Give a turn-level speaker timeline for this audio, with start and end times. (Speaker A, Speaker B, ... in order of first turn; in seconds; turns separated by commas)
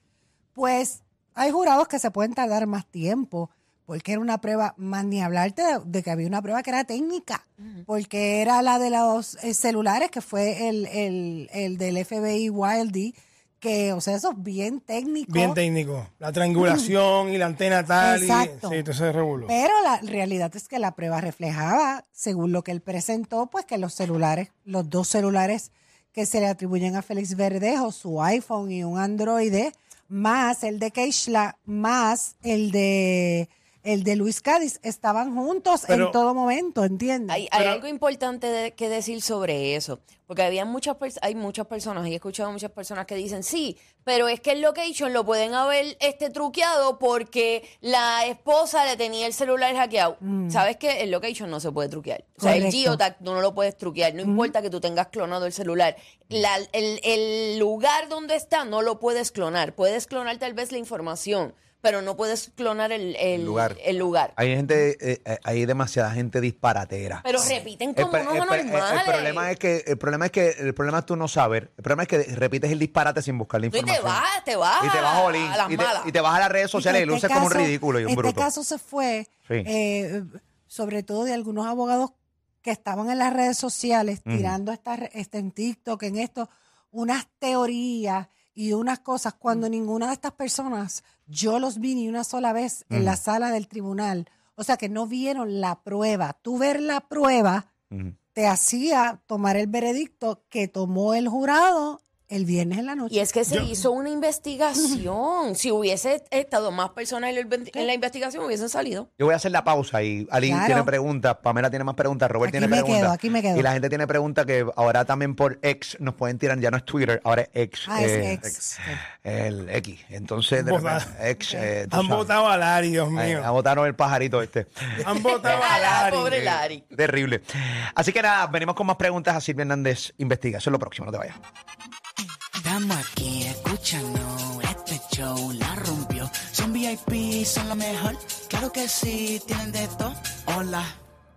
Speaker A: 0.5-15.6, Speaker B: 15.3-19.5, Speaker A: 16.6-16.9, Speaker A: 18.0-18.8, Speaker A: 19.4-37.4, Speaker B: 35.9-36.2, Speaker C: 37.3-64.3, Speaker B: 37.5-37.8, Speaker A: 50.2-50.6, Speaker A: 52.4-53.0, Speaker A: 54.2-54.5, Speaker D: 63.3-63.8, Speaker D: 64.3-74.2, Speaker C: 67.2-69.5, Speaker C: 73.7-76.1, Speaker D: 74.8-78.5, Speaker A: 76.7-97.7, Speaker D: 84.2-84.5, Speaker D: 92.9-93.2, Speaker A: 98.3-103.3, Speaker C: 103.1-109.1, Speaker B: 103.5-103.7, Speaker D: 109.2-118.6, Speaker A: 110.4-110.9, Speaker A: 112.4-113.7, Speaker A: 117.9-119.0, Speaker D: 119.2-122.3, Speaker B: 120.5-121.1, Speaker B: 121.9-123.5, Speaker D: 123.1-131.4, Speaker B: 125.0-126.3, Speaker C: 125.3-126.8, Speaker E: 132.6-141.0